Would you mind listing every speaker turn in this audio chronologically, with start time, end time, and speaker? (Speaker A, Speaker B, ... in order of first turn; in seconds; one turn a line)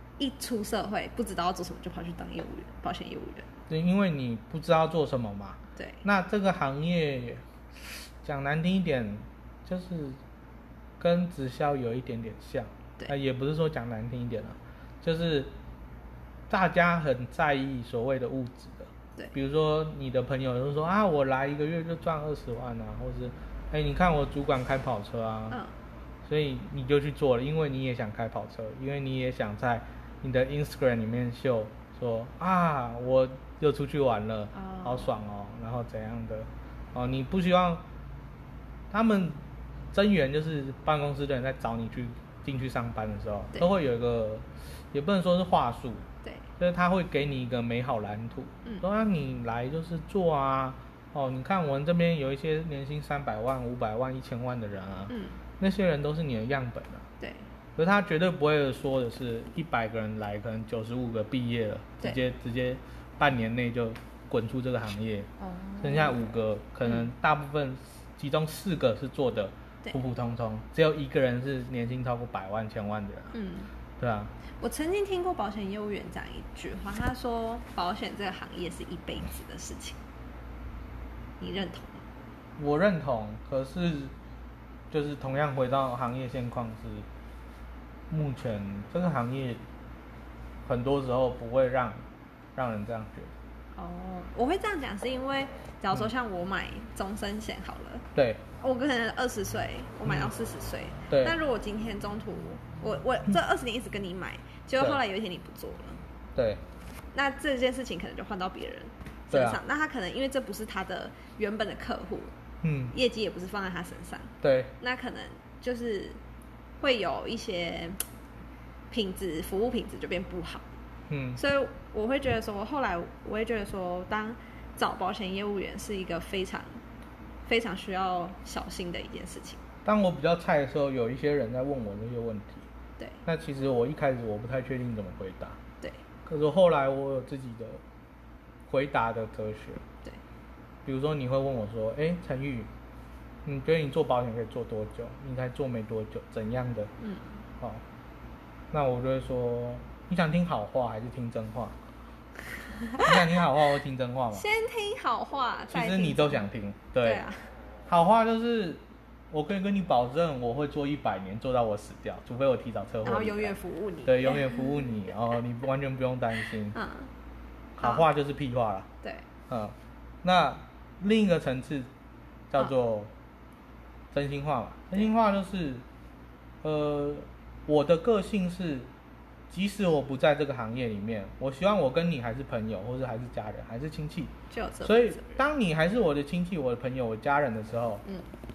Speaker A: 0.2-3.5
Speaker B: 3.7-10.2
Speaker A: 5.8-6.0
Speaker B: 11.0-15.5
Speaker B: 16.5-25.6
Speaker B: 26.2-37.8
Speaker A: 34.5-35.1
Speaker B: 38.9-39.4
Speaker B: 39.9-46.0
Speaker B: 46.6-57.1
Speaker A: 55.1-55.4
Speaker A: 57.2-57.5
Speaker B: 57.8-73.3
Speaker A: 65.4-66.3
Speaker A: 73.3-73.7
Speaker B: 74.0-74.3
Speaker A: 74.6-80.0
Speaker A: 81.4-82.0
Speaker B: 82.6-84.1
Speaker B: 84.9-87.1
Speaker B: 88.1-89.6
Speaker B: 90.6-93.3
Speaker A: 93.7-98.0
Speaker B: 98.1-98.4
Speaker A: 98.6-106.0
Speaker B: 100.0-100.3
Speaker B: 101.1-101.3
Speaker B: 106.3-106.6
Speaker A: 107.1-112.3
Speaker B: 109.3-109.6
Speaker B: 112.6-112.9
Speaker A: 112.9-116.2
Speaker B: 114.4-114.7
Speaker A: 116.8-118.0
Speaker A: 118.9-120.6
Speaker B: 121.1-121.4
Speaker A: 121.3-126.8
Speaker A: 127.5-129.6
Speaker B: 129.8-132.7
Speaker B: 133.2-135.6
Speaker B: 136.2-137.8
Speaker B: 138.7-139.8
Speaker B: 140.8-142.7
Speaker B: 143.4-146.9
Speaker A: 147.0-147.4
Speaker B: 148.7-151.8
Speaker A: 152.8-153.1
Speaker B: 153.0-154.5
Speaker A: 154.3-156.4
Speaker B: 155.7-157.2
Speaker A: 157.0-157.5
Speaker B: 157.9-166.8
Speaker A: 163.0-164.9
Speaker A: 166.7-167.1
Speaker B: 167.8-168.9
Speaker A: 167.8-168.1
Speaker B: 169.5-171.9
Speaker B: 172.5-173.1
Speaker B: 174.1-175.8
Speaker B: 176.6-178.9
Speaker B: 179.5-188.0
Speaker A: 184.5-185.4